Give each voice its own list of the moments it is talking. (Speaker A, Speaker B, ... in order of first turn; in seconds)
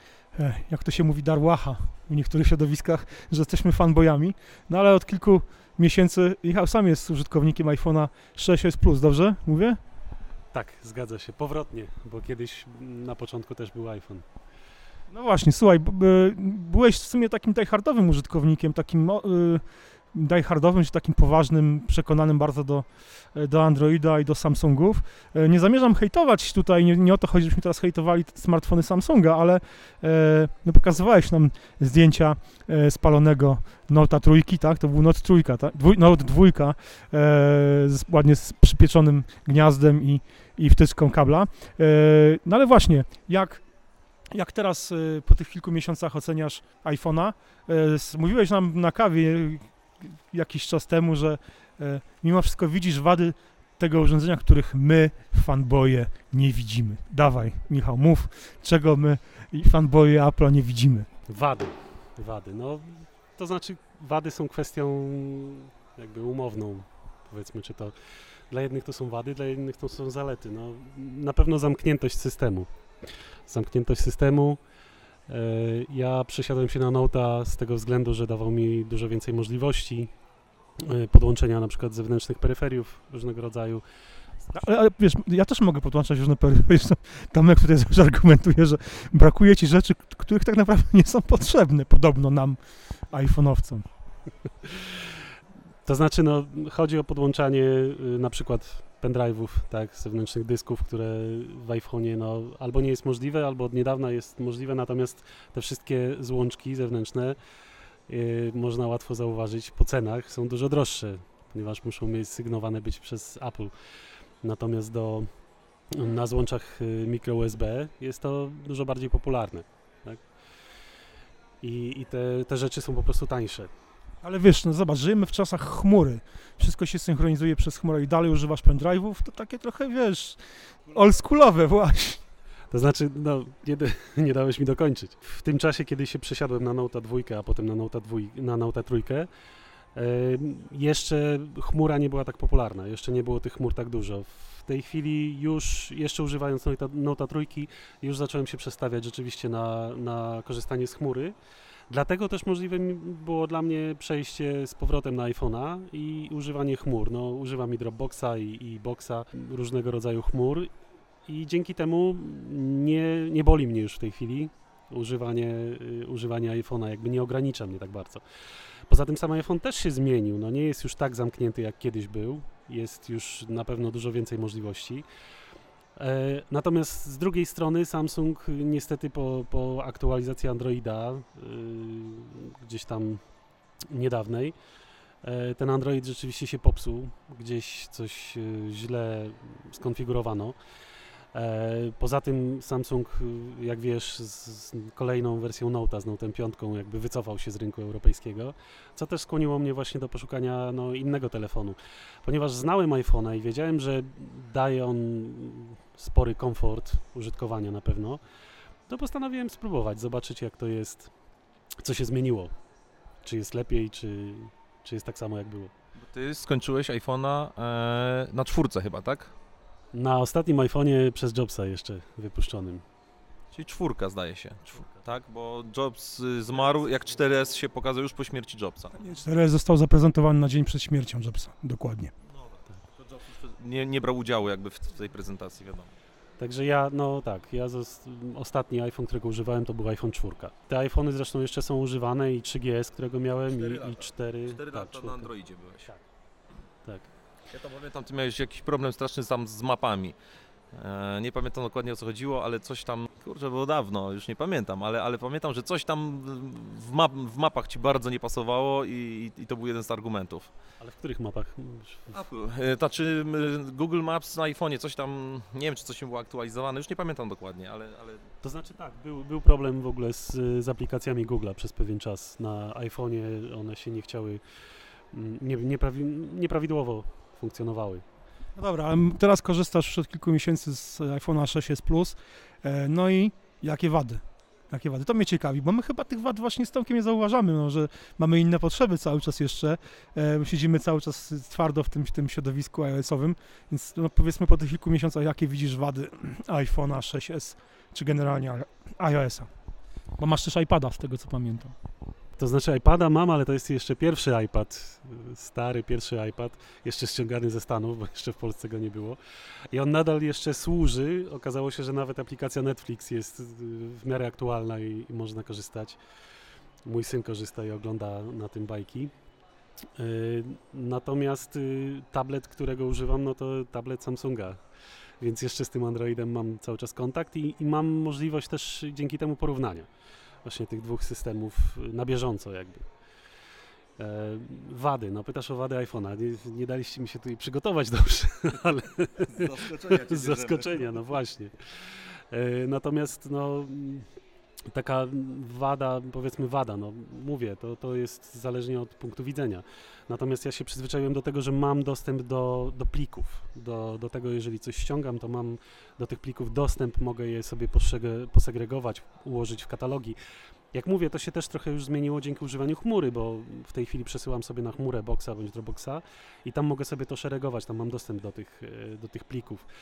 Speaker A: 0.3-9.8, 15.1-43.7, 44.3-61.1, 84.5-93.9, 124.2-132.2, 229.0-232.1, 278.6-299.5, 300.2-301.7
Speaker B: 10.5-14.2, 61.3-67.9, 68.5-72.7, 73.5-74.6, 75.3-80.1, 80.8-83.8, 95.8-107.4, 108.1-113.7, 114.4-115.3, 115.9-120.2, 121.6-123.7, 132.7-139.3, 139.9-151.3, 151.9-160.7, 161.3-168.2, 168.9-175.1, 175.9-183.2, 183.9-184.5, 185.2-190.6, 191.3-208.2, 208.9-211.1, 211.8-212.5, 213.2-215.7, 219.9-222.8, 236.4-246.0, 260.8-262.2, 268.4-274.4, 275.1-278.0, 302.4-309.2, 309.7-316.0, 316.9-319.1, 319.9-324.6, 325.2-329.9, 330.4-333.0, 334.0-344.1, 344.7-360.2, 360.7-369.6
Speaker C: 216.0-219.3, 223.5-228.9, 232.4-235.9, 243.5-245.8, 247.5-250.2, 250.7-260.5, 262.1-268.3, 339.3-340.9